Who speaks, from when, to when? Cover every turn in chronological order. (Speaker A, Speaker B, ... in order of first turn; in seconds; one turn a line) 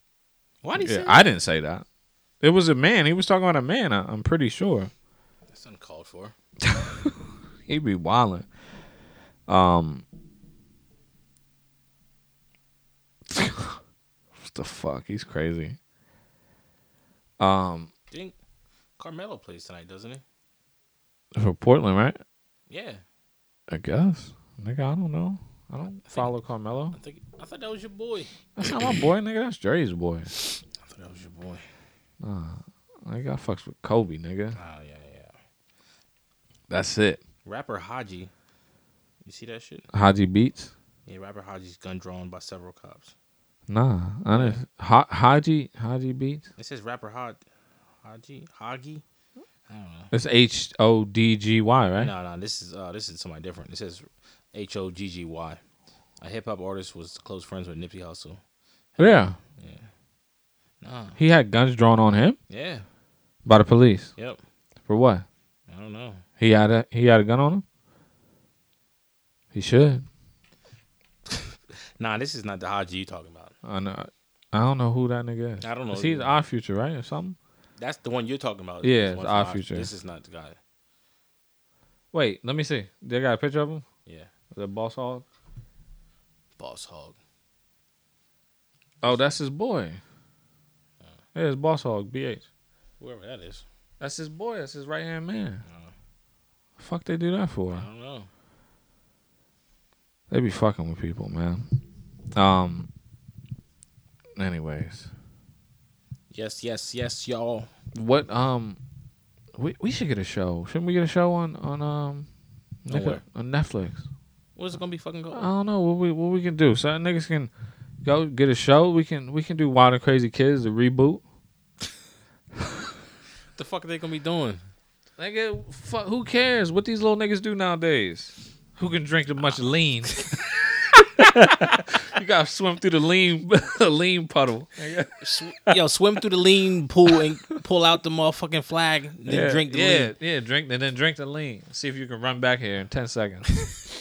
Speaker A: 0.6-1.2
Speaker B: 0.8-1.9
Speaker B: 2.4-4.9
Speaker A: 5.5-6.3
Speaker B: 6.6-7.1
Speaker B: 7.7-8.5
Speaker B: 9.5-10.1
Speaker B: 13.3-13.8
Speaker B: 14.4-15.8
Speaker B: 17.4-17.9
Speaker A: 19.0-20.2
Speaker B: 21.4-22.2
Speaker A: 22.7-23.0
Speaker B: 23.7-27.0
Speaker A: 26.1-26.3
Speaker A: 26.9-29.0
Speaker B: 28.6-30.3
Speaker A: 30.4-31.7
Speaker B: 32.2-34.6
Speaker A: 34.5-35.4
Speaker B: 36.7-37.2
Speaker A: 37.5-38.3
Speaker A: 39.2-39.9
Speaker B: 39.9-40.7
Speaker A: 41.1-43.1
Speaker B: 43.7-46.5
Speaker A: 44.3-44.6
Speaker A: 46.6-47.4
Speaker A: 48.0-49.0
Speaker A: 49.7-50.1
Speaker B: 50.1-52.1
Speaker A: 52.0-55.6
Speaker A: 56.2-58.4
Speaker A: 59.0-59.9
Speaker B: 59.0-59.4
Speaker A: 60.8-61.2
Speaker B: 61.2-62.4
Speaker A: 62.5-62.9
Speaker B: 63.5-64.1
Speaker B: 64.9-65.2
Speaker A: 65.7-66.2
Speaker B: 66.4-67.6
Speaker B: 69.5-70.1
Speaker A: 72.0-73.5
Speaker B: 73.6-77.4
Speaker A: 75.6-76.3
Speaker A: 77.8-80.6
Speaker B: 78.8-79.9
Speaker B: 82.1-83.8
Speaker B: 84.5-85.3
Speaker A: 86.6-87.2
Speaker B: 89.0-90.0
Speaker B: 91.3-92.5
Speaker A: 93.0-93.7
Speaker B: 94.0-95.6
Speaker A: 95.7-95.9
Speaker B: 96.8-97.9
Speaker A: 97.7-98.3
Speaker B: 100.3-101.7
Speaker B: 102.3-102.9
Speaker B: 104.4-105.1
Speaker A: 106.3-107.7
Speaker B: 107.9-108.8
Speaker B: 109.6-112.3
Speaker B: 112.8-114.1
Speaker A: 112.9-113.2
Speaker A: 114.6-115.5
Speaker B: 115.3-117.5
Speaker B: 118.0-121.2
Speaker A: 123.5-124.6
Speaker B: 125.2-130.4
Speaker B: 130.9-135.8
Speaker A: 135.2-140.1
Speaker B: 139.3-143.7